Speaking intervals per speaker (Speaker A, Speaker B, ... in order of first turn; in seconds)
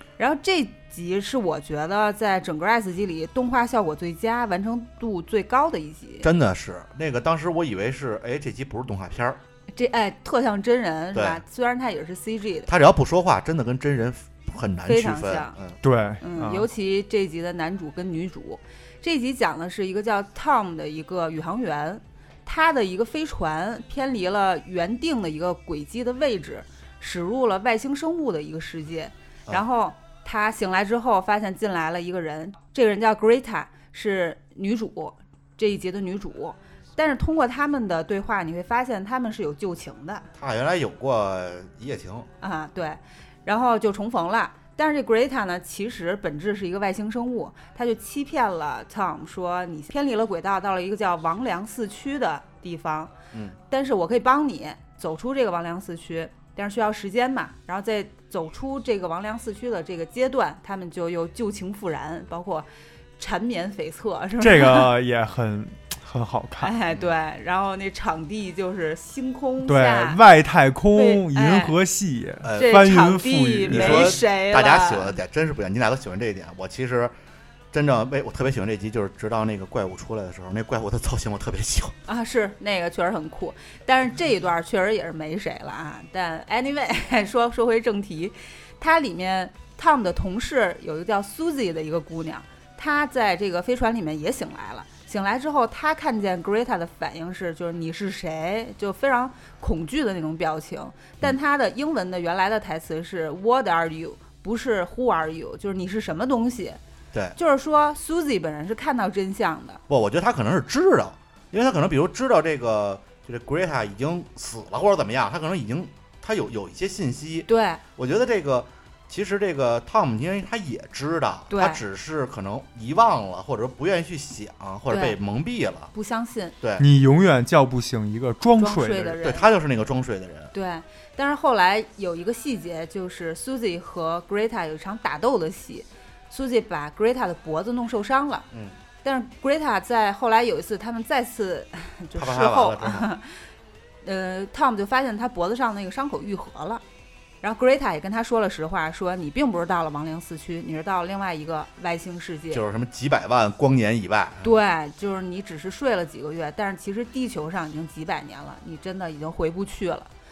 Speaker A: 0.2-6.3, 9.7-12.7, 14.8-15.6, 16.2-40.2, 42.4-53.1, 53.7-62.6, 63.2-64.9, 66.6-70.2, 70.9-71.8, 72.5-75.2, 82.1-106.8, 107.3-109.8, 117.5-117.8, 121.5-121.8, 124.9-125.2, 125.9-126.5, 128.6-129.5, 130.5-138.5, 139.0-143.4, 144.0-146.8, 147.4-152.6, 154.4-160.1
Speaker B: 6.2-9.4, 11.1-11.4, 12.7-15.8, 40.4-42.3, 72.4-72.8, 73.7-77.1, 77.7-82.0, 109.9-125.9, 126.6-126.9, 129.2-130.5, 142.1-143.1, 152.5-154.5
Speaker C: 15.8-16.7, 64.4-66.7, 69.6-74.2, 126.8-129.2